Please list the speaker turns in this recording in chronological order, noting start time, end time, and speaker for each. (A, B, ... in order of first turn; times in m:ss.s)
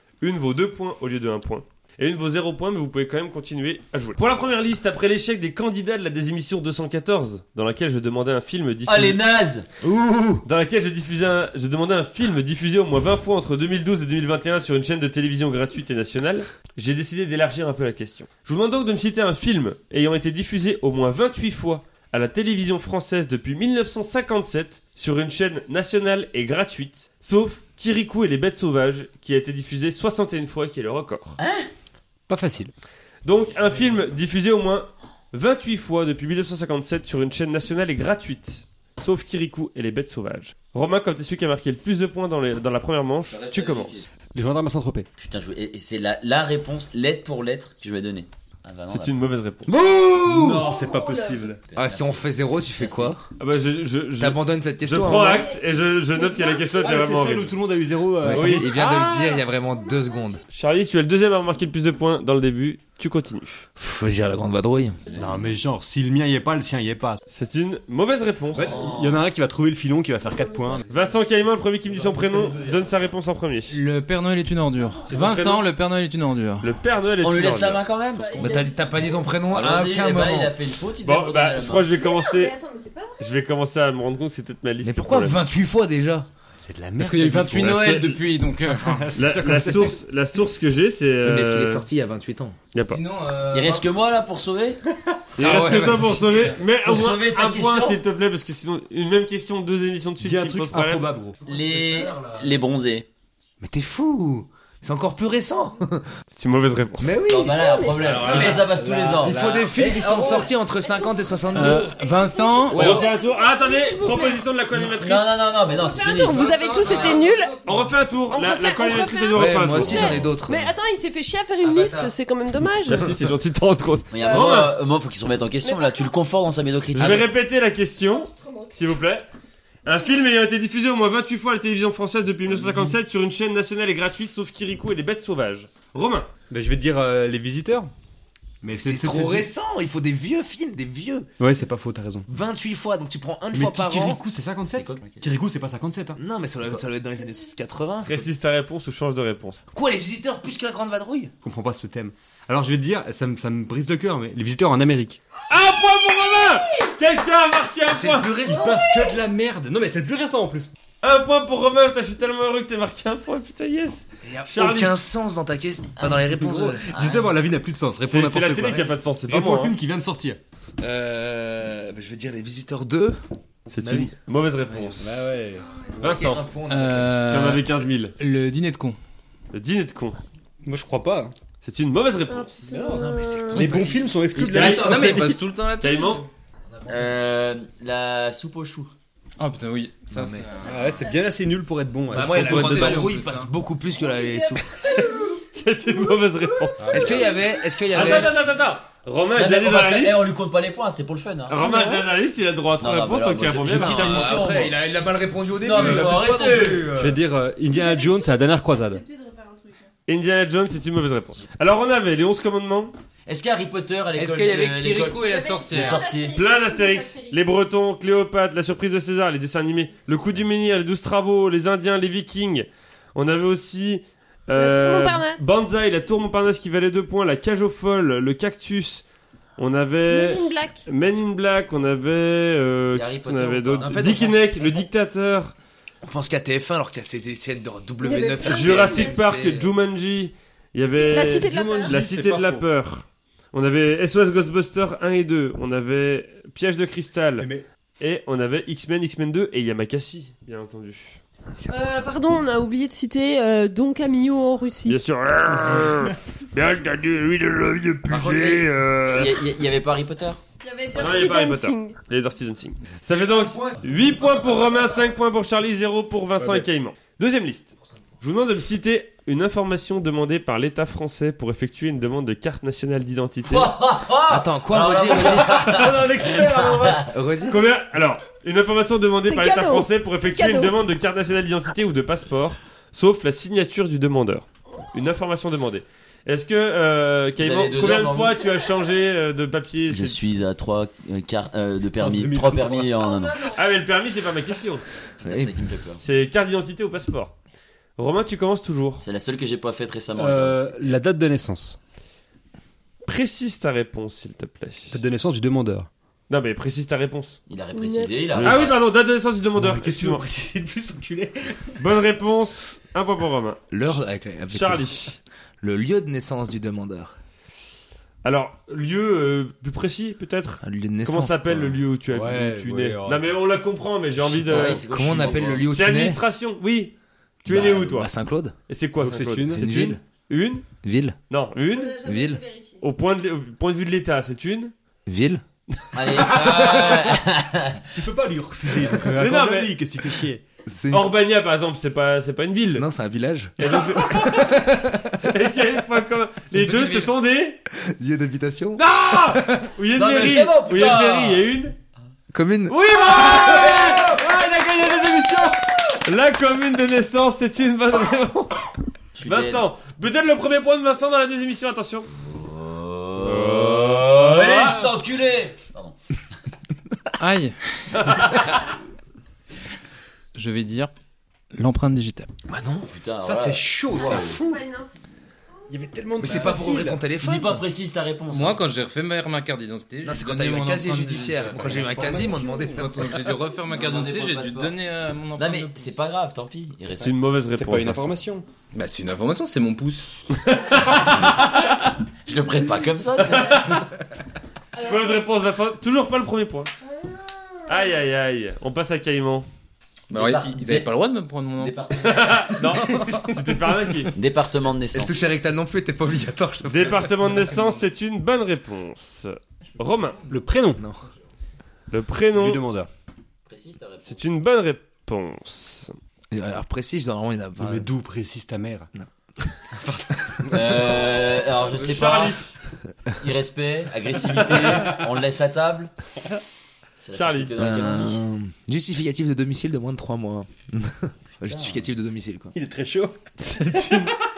0:00.2-0:09.2 A
0:08.8-0:09.7 B
0:09.8-0:10.4 C
0:10.4-0:31.4 A
0:31.4-0:31.7 B
0:32.3-0:32.7 D
0:33.2-0:44.0 A
0:43.3-0:44.1 B
0:44.3-0:45.1 D
0:45.2-0:49.2 B
0:48.9-0:49.7 A
0:49.7-0:50.6 C
0:49.7-0:51.6 D
0:50.6-0:51.5 E
0:51.7-0:53.1 B
0:51.7-0:53.2 C
0:53.4-0:57.5 A
0:54.2-0:55.5 C
0:56.1-0:56.8 E
0:56.8-0:59.3 D
0:58.2-1:00.4 C
0:58.2-0:58.8 A
1:00.5-1:03.6 A
1:03.8-1:05.0 C
1:05.1-1:07.2 D
1:07.3-1:08.8 A
1:08.5-1:10.9 D
1:08.6-1:09.1 B
1:10.9-1:13.8 A
1:11.9-1:12.9 D
1:13.7-1:16.8 F
1:15.1-1:15.6 A
1:16.6-1:17.8 A
1:17.2-1:18.7 B
1:18.2-1:19.3 E
1:18.4-1:20.6 C
1:19.5-1:21.9 B
1:21.0-1:22.5 A
1:22.0-1:23.3 E
1:23.2-1:25.4 A
1:24.8-1:26.3 C
1:26.6-1:28.0 D
1:27.0-1:29.1 F
1:27.6-1:28.2 A
1:28.6-1:30.0 D
1:29.2-1:31.8 A
1:31.2-1:32.6 C
1:32.7-1:33.0 A
1:32.8-1:33.8 F
1:33.5-1:34.8 B
1:35.4-1:41.1 A
1:35.4-1:36.5 C
1:36.8-1:38.0 B
1:40.2-1:41.4 D
1:41.4-1:43.1 B
1:43.6-1:46.1 C
1:46.3-1:47.1 A
1:47.0-1:48.7 C
1:47.1-1:48.0 E
1:47.2-1:50.5 B
1:48.0-1:49.8 D
1:49.2-1:51.9 C
1:50.1-1:54.4 E
1:51.5-1:53.0 F
1:52.7-1:55.4 A
1:52.7-1:53.0 C
1:54.9-1:57.2 B
1:55.7-1:57.6 E
1:56.4-1:57.6 F
1:57.6-2:00.2 A
1:58.3-2:03.1 E
1:59.3-2:00.7 C
1:59.8-2:00.2 B
2:01.6-2:02.1 F
2:02.8-2:04.8 A
2:04.1-2:07.3 B
2:04.2-2:04.7 E
2:05.6-2:06.1 E
2:06.9-2:09.2 A
2:08.1-2:08.9 E
2:09.8-2:16.3 A
2:12.5-2:12.9 D
2:16.5-2:17.9 D
2:18.6-2:19.5 D
2:18.7-2:21.3 C
2:21.4-2:22.3 D
2:22.3-2:24.2 C
2:23.5-2:26.2 D
2:24.6-2:25.3 B
2:26.2-2:28.2 C
2:28.0-2:29.6 A
2:29.7-2:31.3 C
2:31.4-2:35.2 D
2:35.5-2:38.5 A
2:37.9-2:38.9 C
2:38.4-2:40.7 D
2:41.0-2:45.0 A
2:44.2-2:47.0 C
2:46.0-2:46.3 B
2:46.2-2:50.4 D
2:46.8-2:47.3 B
2:48.0-2:49.8 A
2:50.8-2:53.2 C
2:53.7-2:55.1 A
2:53.8-2:54.1 C
2:54.7-2:55.0 C
2:55.0-2:55.7 D
2:55.9-2:57.4 C
2:56.0-2:56.5 A
2:56.6-2:59.0 F
2:57.2-2:58.1 A
2:59.5-3:00.2 A
3:00.6-3:01.3 D
3:01.6-3:02.7 A
3:02.3-3:03.6 E
3:02.7-3:05.4 D
3:02.7-3:05.4 C
3:04.4-3:06.3 F
3:04.5-3:06.2 A
3:06.7-3:07.1 C
3:06.9-3:08.9 B
3:09.4-3:10.8 F
3:10.1-3:10.6 C
3:10.6-3:13.2 D
3:12.1-3:14.6 C
3:12.2-3:13.5 F
3:14.2-3:15.4 E
3:14.8-3:17.1 A
3:16.8-3:17.3 D
3:16.9-3:18.4 C
3:17.0-3:17.3 E
3:17.9-3:20.3 A
3:19.3-3:21.6 B
3:21.5-3:24.4 A
3:21.6-3:22.0 E
3:22.8-3:24.8 B
3:23.6-3:27.2 C
3:25.6-3:26.9 B
3:25.7-3:26.2 D
3:26.9-3:29.0 D
3:27.7-3:29.9 E
3:30.1-3:32.9 A
3:33.3-3:36.4 B
3:34.2-3:36.1 F
3:35.2-3:37.5 E
3:36.3-3:49.0 A
3:44.6-3:45.4 E
3:49.6-3:55.5 A
3:50.1-3:50.8 E
3:52.9-3:54.3 B
3:53.8-3:54.6 C
3:56.0-3:59.7 C
3:58.0-3:59.2 E
3:58.4-4:07.5 A
4:00.9-4:02.0 E
4:01.3-4:02.6 D
4:07.4-4:07.6 D
4:08.0-4:11.2 A
4:11.6-4:12.2 C
4:11.7-4:15.0 E
4:14.8-4:19.4 A
4:15.6-4:15.9 D
4:18.1-4:20.4 B
4:20.6-4:22.0 E
4:20.9-4:33.7 A
4:23.1-4:24.2 C
4:26.4-4:26.7 D
4:33.4-4:37.1 B
4:34.3-4:35.6 C
4:35.4-4:35.9 A
4:35.6-4:37.1 D
4:37.0-4:37.6 C
4:37.5-4:50.2 A
4:39.2-4:40.8 E
4:47.4-4:48.4 B
4:49.9-4:53.5 B
4:52.0-4:52.9 D
4:53.0-4:53.5 E
4:53.5-4:54.8 A
4:55.2-4:56.0 B
4:55.2-4:55.5 C
4:56.0-4:57.3 A
4:58.0-4:59.0 A
4:59.0-5:01.0 B
5:00.2-5:01.8 D
5:03.1-5:05.0 A
5:04.9-5:05.9 D
5:06.3-5:07.4 A
5:07.5-5:08.8 B
5:07.7-5:08.2 E
5:08.4-5:08.6 C
5:08.4-5:10.2 A
5:09.6-5:11.8 D
5:11.8-5:14.0 A
5:13.7-5:15.0 C
5:14.5-5:15.2 A
5:15.6-5:17.1 C
5:18.2-5:26.9 A
5:20.6-5:21.7 C
5:22.1-5:23.3 D
5:24.4-5:25.7 B
5:24.5-5:26.2 C
5:27.4-5:28.1 A
5:27.5-5:28.5 C
5:28.7-5:30.6 A
5:29.0-5:29.7 D
5:29.5-5:30.0 C
5:30.8-5:31.2 C
5:31.3-5:32.0 A
5:31.7-5:32.8 E
5:32.0-5:32.4 C
5:32.8-5:34.7 A
5:35.1-5:35.4 C
5:35.9-5:37.8 B
5:36.1-5:36.6 A
5:36.4-5:36.8 D
5:37.9-5:40.4 D
5:39.0-5:39.7 A
5:40.6-5:41.1 C
5:40.9-5:42.9 A
5:42.7-5:45.3 C
5:43.6-5:47.6 A
5:46.5-5:47.1 F
5:47.7-5:49.7 C
5:48.8-5:51.7 A
5:49.9-5:51.5 B
5:52.3-5:54.0 C
5:52.7-5:58.7 A
5:59.1-5:59.6 B
5:59.2-6:02.1 A
6:02.2-6:06.0 B
6:03.2-6:04.8 D
6:04.4-6:04.7 A
6:07.2-6:08.2 F
6:07.9-6:08.5 A
6:10.3-6:10.9 F
6:11.5-6:12.3 F
6:12.5-6:12.9 C
6:12.9-6:14.4 B
6:13.2-6:14.6 D
6:14.3-6:14.9 E
6:15.7-6:17.0 D
6:16.2-6:17.6 C
6:17.2-6:18.6 B
6:18.3-6:22.0 F
6:20.0-6:23.4 C
6:21.5-6:22.8 D
6:22.1-6:22.7 E
6:22.8-6:26.1 F
6:23.7-6:24.8 B
6:25.4-6:27.1 B
6:27.0-6:28.1 A
6:27.5-6:28.4 D
6:28.7-6:30.1 F
6:30.3-6:31.9 A
6:32.2-6:33.7 B
6:33.2-6:33.9 A
6:34.7-6:36.7 A
6:36.8-6:37.7 E
6:37.7-6:39.5 A
6:40.1-6:40.9 B
6:40.1-6:41.8 F
6:41.6-6:42.7 B
6:42.0-6:44.1 A
6:43.0-6:43.2 C
6:44.1-6:45.2 B
6:44.9-6:47.4 C
6:46.7-6:50.2 A
6:50.2-6:50.8 D
6:50.8-6:51.0 C
6:51.9-6:52.6 A
6:52.3-6:52.9 D
6:53.4-6:54.2 B
6:54.0-6:55.9 A
6:56.3-6:57.9 C
6:57.6-6:58.9 D
6:59.8-7:01.1 D
7:00.5-7:02.4 B
7:01.8-7:02.5 A
7:03.2-7:05.9 B
7:04.5-7:05.0 D
7:07.0-7:08.2 B
7:07.1-7:07.6 A
7:07.6-7:12.5 C
7:11.4-7:11.8 B
7:12.5-7:13.2 D
7:13.4-7:14.2 A